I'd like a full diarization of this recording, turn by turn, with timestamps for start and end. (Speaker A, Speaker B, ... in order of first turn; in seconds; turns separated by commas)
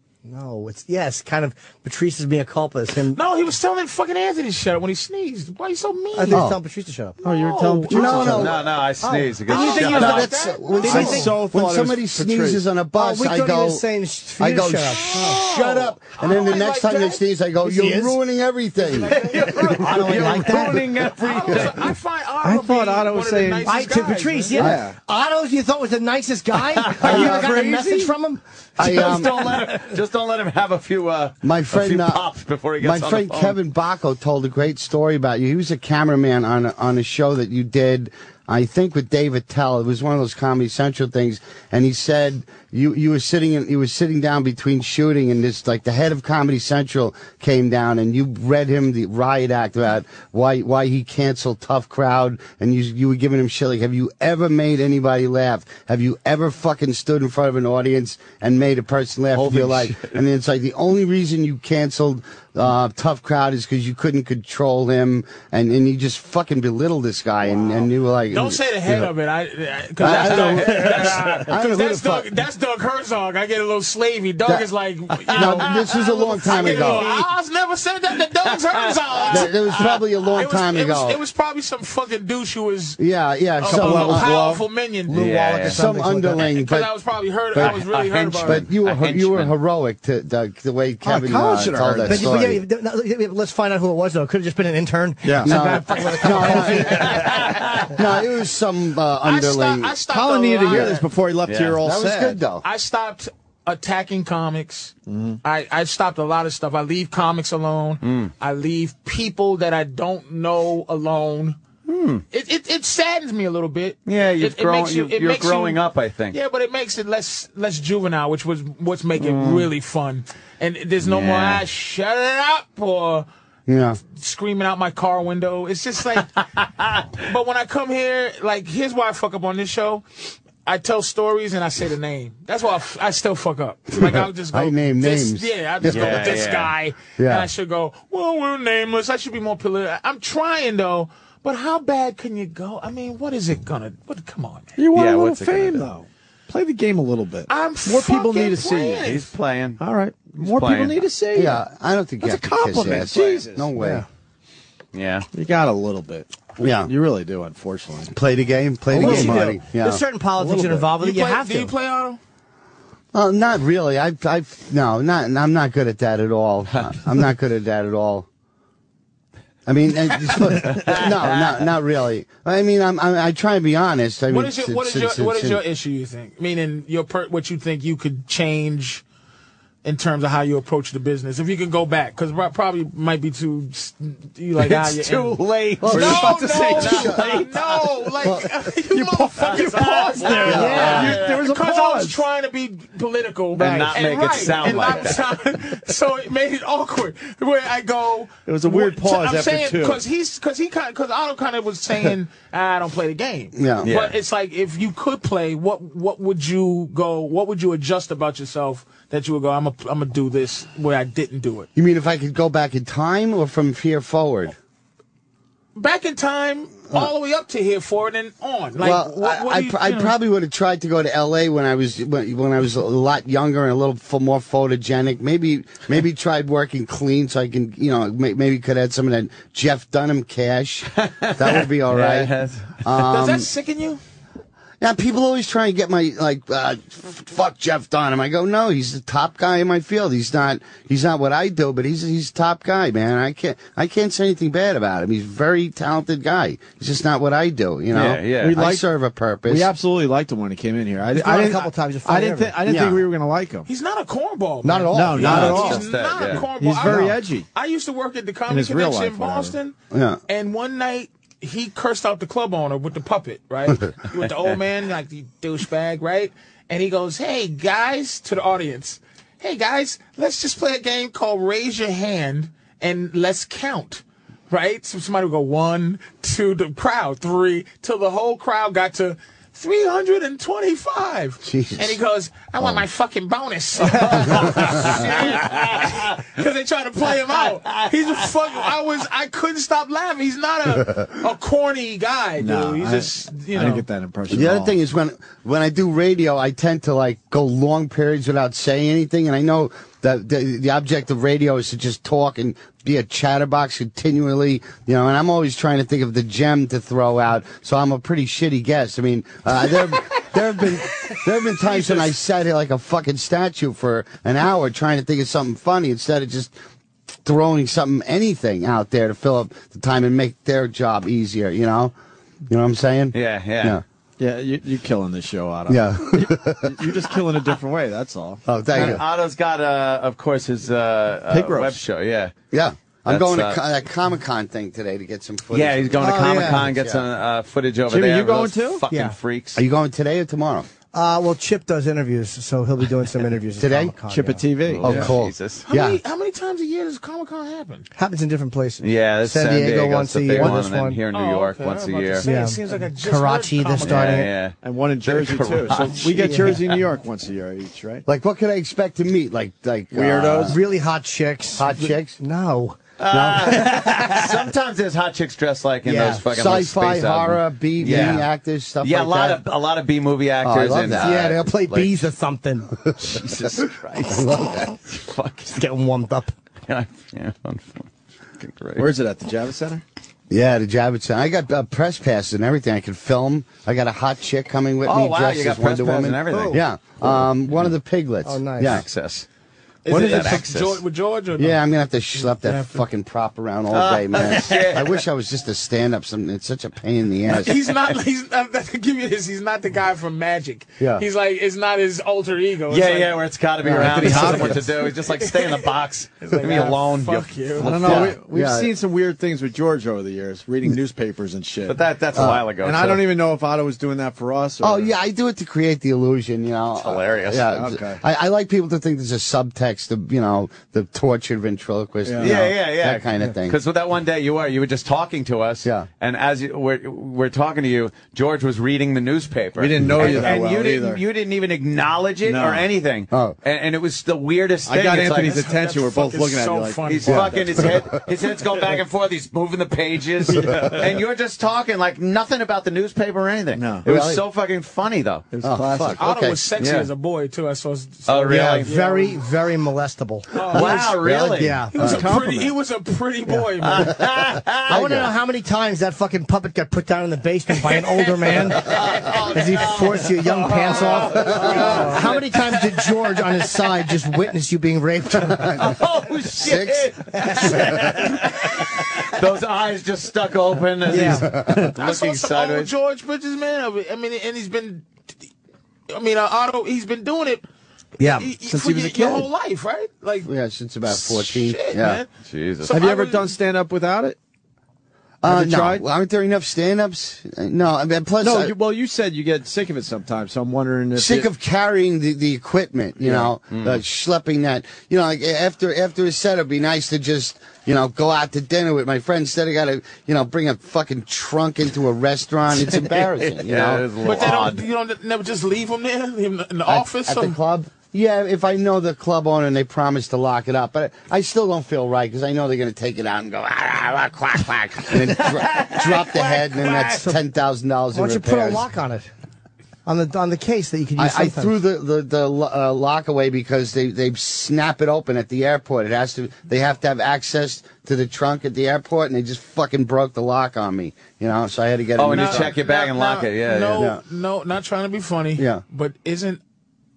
Speaker A: 0.2-3.2, Speaker B: 3.1-6.4, Speaker A: 6.1-7.2, Speaker C: 6.3-6.6, Speaker D: 7.2-8.5, Speaker B: 7.2-8.5, Speaker C: 7.9-8.7, Speaker E: 8.2-10.3, Speaker A: 9.0-11.3, Speaker B: 9.5-11.3, Speaker C: 9.6-13.8, Speaker D: 10.8-12.6, Speaker A: 12.9-15.4, Speaker C: 14.4-19.2, Speaker B: 15.3-17.2, Speaker A: 17.6-18.2, Speaker B: 18.8-20.0, Speaker E: 18.9-21.9, Speaker A: 19.4-20.9, Speaker B: 21.1-24.6, Speaker D: 22.4-23.7, Speaker A: 23.6-29.7, Speaker D: 24.5-24.9, Speaker C: 24.6-24.8, Speaker E: 26.7-27.4, Speaker D: 27.0-28.1, Speaker C: 28.8-29.5, Speaker E: 28.8-33.6, Speaker C: 31.4-32.2, Speaker C: 32.8-69.1, Speaker E: 59.3-60.2, Speaker B: 67.8-83.0, Speaker C: 70.0-72.3, Speaker E: 70.0-71.2, Speaker E: 75.2-77.2, Speaker C: 75.3-77.2, Speaker E: 78.6-80.0, Speaker C: 79.3-81.2, Speaker C: 83.0-84.4, Speaker B: 83.6-85.2, Speaker D: 83.6-84.6, Speaker A: 85.1-86.5, Speaker E: 85.1-85.9, Speaker C: 85.6-86.9, Speaker B: 86.4-88.7, Speaker C: 87.5-87.8, Speaker E: 87.6-89.5, Speaker C: 88.4-92.6, Speaker D: 91.0-92.3, Speaker A: 92.0-97.3, Speaker D: 95.2-95.5, Speaker C: 95.4-100.0, Speaker E: 96.8-98.0, Speaker B: 97.0-97.5, Speaker B: 99.2-101.0, Speaker D: 100.1-102.4, Speaker C: 100.7-101.0, Speaker E: 101.4-101.8, Speaker C: 101.8-102.6, Speaker B: 102.6-111.6, Speaker D: 105.1-105.4, Speaker E: 108.0-108.3, Speaker E: 111.8-112.2, Speaker B: 112.3-123.3, Speaker E: 114.1-116.4, Speaker E: 119.2-119.7, Speaker E: 121.0-121.6, Speaker C: 123.7-124.0, Speaker B: 124.0-126.4, Speaker E: 126.6-127.2, Speaker B: 127.2-130.0, Speaker B: 130.6-144.7, Speaker C: 134.0-136.3, Speaker E: 135.9-136.7, Speaker C: 137.2-137.5, Speaker D: 144.8-149.0, Speaker E: 144.9-145.9, Speaker B: 147.5-149.3, Speaker E: 148.9-149.8, Speaker D: 149.8-151.6, Speaker E: 150.3-151.0, Speaker C: 151.3-154.0, Speaker D: 152.2-154.0, Speaker E: 154.9-155.3, Speaker D: 155.3-156.3, Speaker C: 156.6-156.9, Speaker D: 156.9-158.1, Speaker C: 158.1-160.0, Speaker D: 158.9-159.6, Speaker A: 158.9-161.7, Speaker D: 160.4-160.8, Speaker B: 161.0-162.2, Speaker C: 163.1-168.3, Speaker C: 169.7-175.6, Speaker E: 170.6-171.5, Speaker B: 174.3-179.0, Speaker B: 179.8-211.7, Speaker E: 184.6-188.3, Speaker C: 185.8-187.5, Speaker C: 188.2-188.5, Speaker D: 188.9-189.6, Speaker E: 189.4-191.4, Speaker D: 190.2-192.2, Speaker A: 190.4-191.1, Speaker C: 190.4-191.2, Speaker E: 193.6-195.3, Speaker A: 193.6-193.9, Speaker D: 193.6-193.9, Speaker D: 198.4-200.0, Speaker C: 203.5-203.9, Speaker E: 203.8-204.1, Speaker C: 211.8-214.5, Speaker B: 215.7-220.1, Speaker C: 218.8-232.3, Speaker E: 230.9-232.8, Speaker C: 232.8-233.5, Speaker B: 232.9-234.0, Speaker C: 234.8-249.7, Speaker E: 247.9-248.6, Speaker D: 248.3-248.8, Speaker D: 249.5-253.7, Speaker A: 251.1-252.6, Speaker C: 252.6-253.1, Speaker B: 253.7-259.7, Speaker A: 254.6-255.8, Speaker D: 254.9-257.5, Speaker E: 255.2-256.5, Speaker D: 258.5-259.6, Speaker C: 259.9-260.2, Speaker B: 260.3-293.9, Speaker C: 281.4-282.0, Speaker E: 283.8-286.3, Speaker C: 284.2-285.0, Speaker E: 287.4-288.3, Speaker D: 292.4-294.8, Speaker C: 294.3-316.5, Speaker B: 311.1-312.1, Speaker C: 317.2-321.9, Speaker C: 322.5-323.8, Speaker E: 323.1-323.8, Speaker D: 324.2-328.4, Speaker C: 325.7-326.9, Speaker C: 328.4-329.0, Speaker E: 328.7-332.3, Speaker D: 331.3-331.8, Speaker C: 332.5-337.1, Speaker E: 333.1-333.6, Speaker E: 335.5-339.6, Speaker A: 336.0-336.7, Speaker D: 337.9-338.8, Speaker A: 338.9-339.1, Speaker C: 339.5-340.7, Speaker A: 340.9-345.0, Speaker C: 343.6-344.0, Speaker D: 344.1-345.1, Speaker C: 344.8-346.0, Speaker E: 344.8-345.7, Speaker B: 345.7-347.9, Speaker A: 347.9-351.0, Speaker E: 348.8-352.3, Speaker B: 351.1-354.2, Speaker A: 352.2-354.3, Speaker E: 353.8-356.8, Speaker D: 354.6-358.0, Speaker A: 356.1-356.5, Speaker C: 358.1-360.6, Speaker D: 359.9-360.6, Speaker A: 360.5-362.8, Speaker C: 361.6-362.2, Speaker E: 363.0-368.3, Speaker C: 363.1-363.9, Speaker A: 365.8-366.2, Speaker C: 366.3-369.4, Speaker E: 368.8-372.1, Speaker C: 370.4-371.4, Speaker A: 370.9-372.7, Speaker C: 372.9-374.7, Speaker E: 373.0-375.5, Speaker A: 375.5-376.3, Speaker E: 376.7-378.9, Speaker D: 378.8-379.8, Speaker C: 380.3-388.8, Speaker E: 384.8-387.0, Speaker A: 386.3-386.6, Speaker A: 388.2-388.8, Speaker E: 388.6-389.3, Speaker B: 389.8-391.6, Speaker D: 389.9-390.4, Speaker E: 389.9-390.8, Speaker C: 391.4-397.6, Speaker B: 392.2-392.8, Speaker E: 393.7-395.0, Speaker B: 397.3-403.3, Speaker C: 400.8-401.0, Speaker E: 402.7-408.1, Speaker C: 403.6-404.6, Speaker D: 403.8-404.6, Speaker B: 404.0-408.0, Speaker C: 406.4-406.6, Speaker D: 407.6-411.8, Speaker C: 407.7-408.7, Speaker E: 411.6-413.0, Speaker C: 412.1-412.5, Speaker D: 412.6-414.9, Speaker C: 414.6-423.6, Speaker E: 416.8-417.5, Speaker D: 417.5-418.0, Speaker D: 422.1-422.5, Speaker E: 422.2-435.4, Speaker C: 425.6-425.9, Speaker D: 429.6-431.0, Speaker C: 429.8-430.3, Speaker D: 432.2-432.7, Speaker C: 433.1-433.4, Speaker D: 434.6-437.7, Speaker B: 435.2-437.6, Speaker E: 436.9-445.4, Speaker C: 437.1-438.0, Speaker C: 440.4-440.8, Speaker D: 440.4-440.7, Speaker D: 443.5-443.9, Speaker C: 443.8-444.2, Speaker D: 445.3-446.0, Speaker C: 445.4-446.4, Speaker B: 446.0-449.2, Speaker E: 446.6-446.9, Speaker E: 448.1-448.7, Speaker A: 448.3-452.2, Speaker B: 450.3-451.0, Speaker E: 450.5-451.7, Speaker B: 451.7-454.0, Speaker D: 451.8-452.5, Speaker C: 451.8-452.1, Speaker E: 453.6-454.8, Speaker C: 454.6-455.1, Speaker A: 454.7-465.5, Speaker B: 457.7-458.9, Speaker E: 458.6-462.9, Speaker B: 460.6-462.2, Speaker C: 461.1-462.1, Speaker C: 465.2-465.8, Speaker E: 465.6-472.7, Speaker C: 466.3-468.0, Speaker A: 467.3-467.6, Speaker A: 470.9-471.6, Speaker C: 471.1-471.7, Speaker B: 471.7-474.9, Speaker B: 475.9-477.4, Speaker A: 478.0-479.2, Speaker B: 478.0-480.3, Speaker D: 478.5-479.2, Speaker C: 480.2-482.0, Speaker B: 480.9-482.1, Speaker E: 482.2-482.8, Speaker B: 482.6-483.3, Speaker D: 482.7-484.2, Speaker C: 485.2-488.5, Speaker D: 485.2-485.8, Speaker D: 488.2-491.3, Speaker C: 490.9-504.1, Speaker D: 493.0-493.3, Speaker E: 493.5-493.8, Speaker E: 502.5-504.6, Speaker B: 504.0-507.4, Speaker C: 506.7-518.6, Speaker E: 515.2-516.9, Speaker A: 516.8-517.2, Speaker A: 517.9-519.1, Speaker A: 519.9-521.5, Speaker C: 521.0-532.6, Speaker E: 532.0-533.9, Speaker B: 532.1-536.4, Speaker C: 535.4-535.6